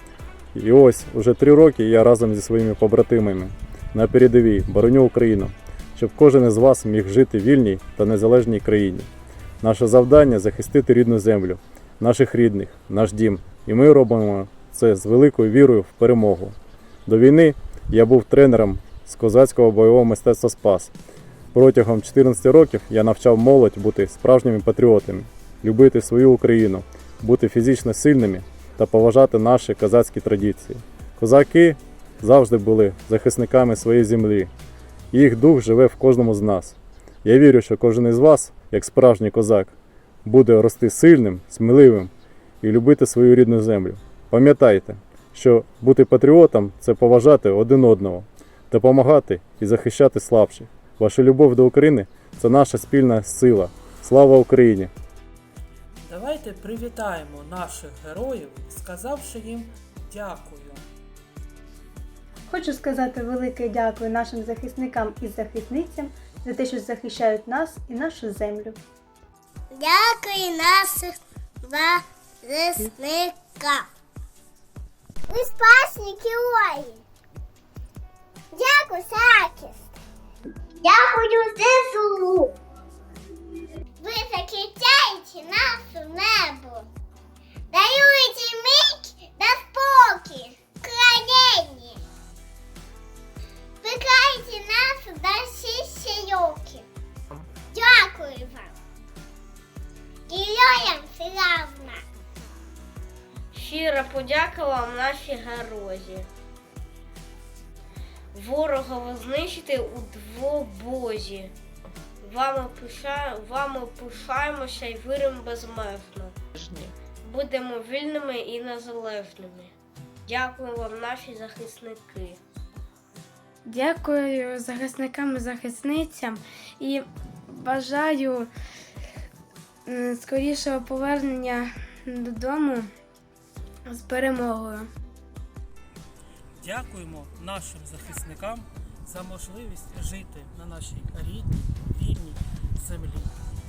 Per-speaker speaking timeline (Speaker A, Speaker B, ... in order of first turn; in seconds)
Speaker A: 0.5-9.1, 9.6-16.6, 17.1-20.9, 21.5-34.5, 35.1-39.7, 40.2-42.1, 42.6-54.9
Speaker B: 56.0-60.9, 136.6-143.4
Speaker C: 62.5-68.8
Speaker D: 69.7-73.9, 75.3-77.0, 78.5-79.8, 80.8-82.5, 84.0-86.9, 87.7-92.0, 93.8-96.9, 97.7-98.7, 100.3-102.0
Speaker E: 103.5-106.3, 108.3-111.5, 112.2-116.4, 117.2-119.7, 120.2-122.4
Speaker F: 123.7-128.5, 129.9-132.9, 133.9-134.9